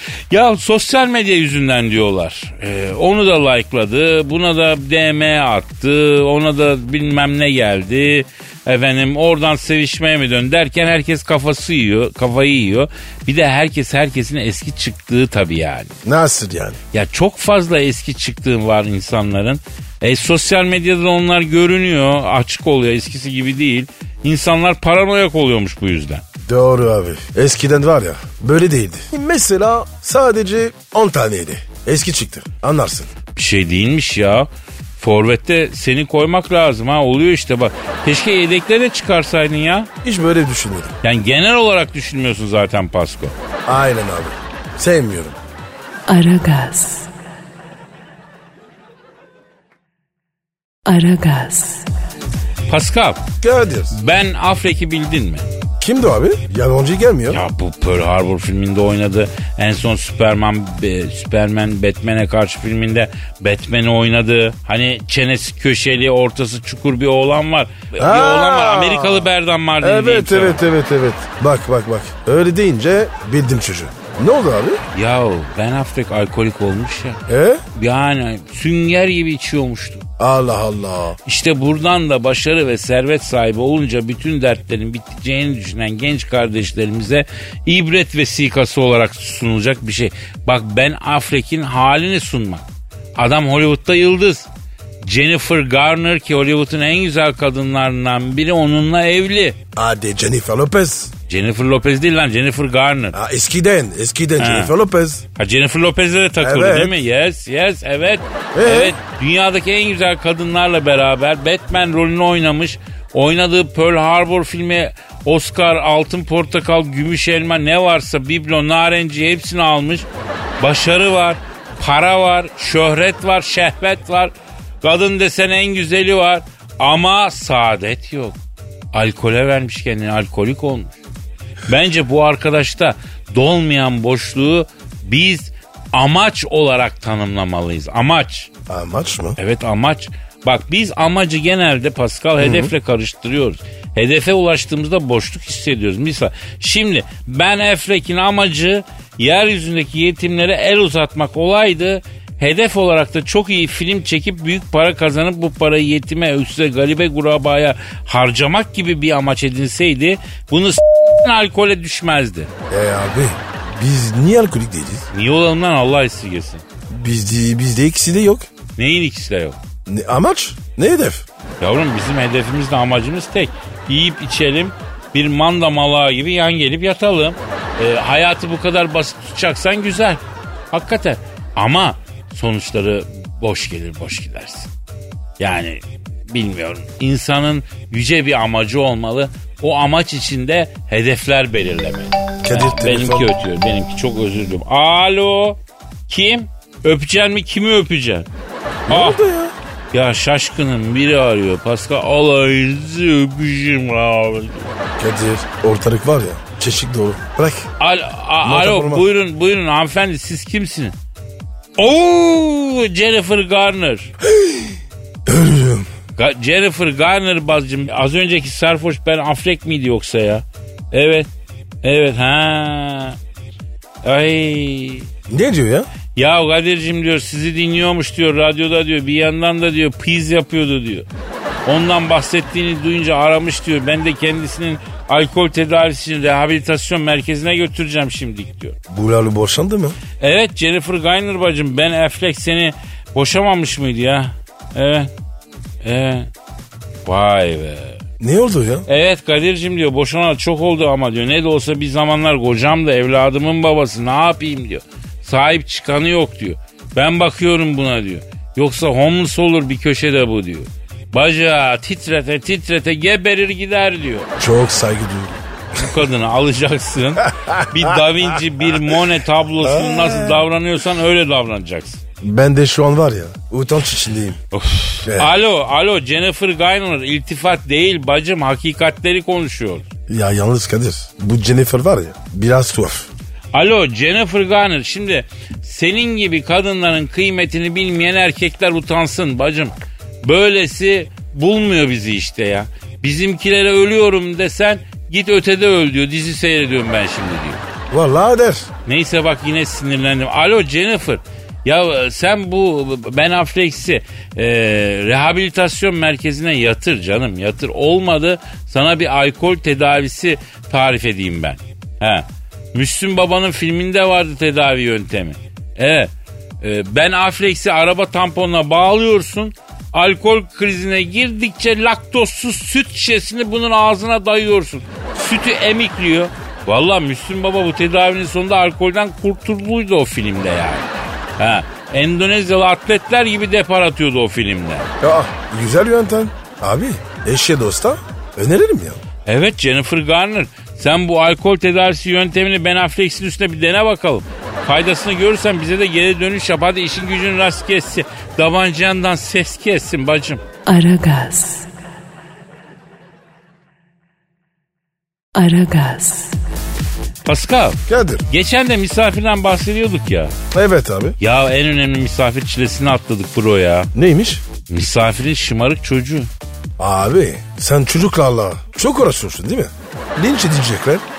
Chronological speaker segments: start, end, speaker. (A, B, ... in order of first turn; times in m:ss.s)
0:00.3-0:16.0 A
0:16.0-0:16.8 B
0:16.9-0:26.2 A
0:26.4-0:33.1 B
0:33.4-0:39.9 A
0:40.0-0:40.9 B
0:41.0-0:43.3 A
0:43.7-0:45.4 B
0:46.1-0:47.1 C
0:50.9-0:51.9 C
0:52.7-0:53.2 A
0:53.4-0:54.0 B
0:53.9-0:55.5 A
0:55.8-0:57.4 B
0:57.3-1:10.6 A
1:08.0-1:14.8 B
1:14.9-1:17.2 A
1:17.3-1:17.6 B
1:17.8-1:20.1 A
1:20.2-1:21.2 B
1:21.2-1:34.5 A
1:35.0-1:39.6 A
1:39.8-1:41.1 B
1:41.3-1:43.2 A
1:43.1-1:45.2 B
1:44.4-1:44.7 A
1:45.4-2:00.1 A
1:46.4-1:47.0 B
1:48.5-1:49.0 B
2:00.6-2:08.4 A
2:08.9-2:11.0 A
2:11.7-2:18.5 A
2:18.7-2:19.4 B
2:19.4-2:42.5 A
2:22.4-2:22.7 B
2:42.7-2:45.1 B
2:45.1-2:46.6 A
2:46.9-2:48.5 B
2:48.8-2:49.6 A
2:49.9-2:51.3 B
2:51.6-3:04.7 A
3:05.4-3:18.3 A
3:12.4-3:13.4 B
3:18.9-3:19.2 A
3:18.9-3:19.5 B
3:19.9-3:24.7 A
3:25.0-3:27.7 B
3:27.8-3:30.9 A
3:28.4-3:29.1 B
3:31.8-3:34.1 A
3:34.2-3:35.9 B
3:36.2-3:41.3 A
3:41.8-3:43.2 A
3:44.0-3:45.1 A
3:45.3-3:45.9 B
3:46.2-3:51.1 A
3:51.7-3:58.8 A
3:58.9-4:00.0 B
4:00.2-4:05.1 A
4:05.8-4:06.3 A
4:07.1-4:08.0 A
4:08.2-4:08.9 B
4:08.9-4:24.3 A
4:24.4-4:25.4 B
4:25.7-4:32.0 A
4:27.4-4:27.9 B
4:29.6-4:30.4 B
4:32.2-4:34.4 B
4:34.5-4:39.9 A
4:35.0-4:35.3 B
4:40.1-4:43.1 B
4:43.5-4:57.6 A
4:57.9-4:58.7 B
4:58.9-5:34.9 A
5:35.0-5:39.0 B
5:39.3-5:50.4 A
5:50.7-5:51.7 C
5:55.4-5:56.4 C
5:57.2-6:00.3 A
5:57.9-5:58.2 B
6:00.5-6:01.2 B
6:01.2-6:03.9 A
6:03.9-6:04.4 B
6:04.7-6:06.3 A
6:06.8-6:11.0 B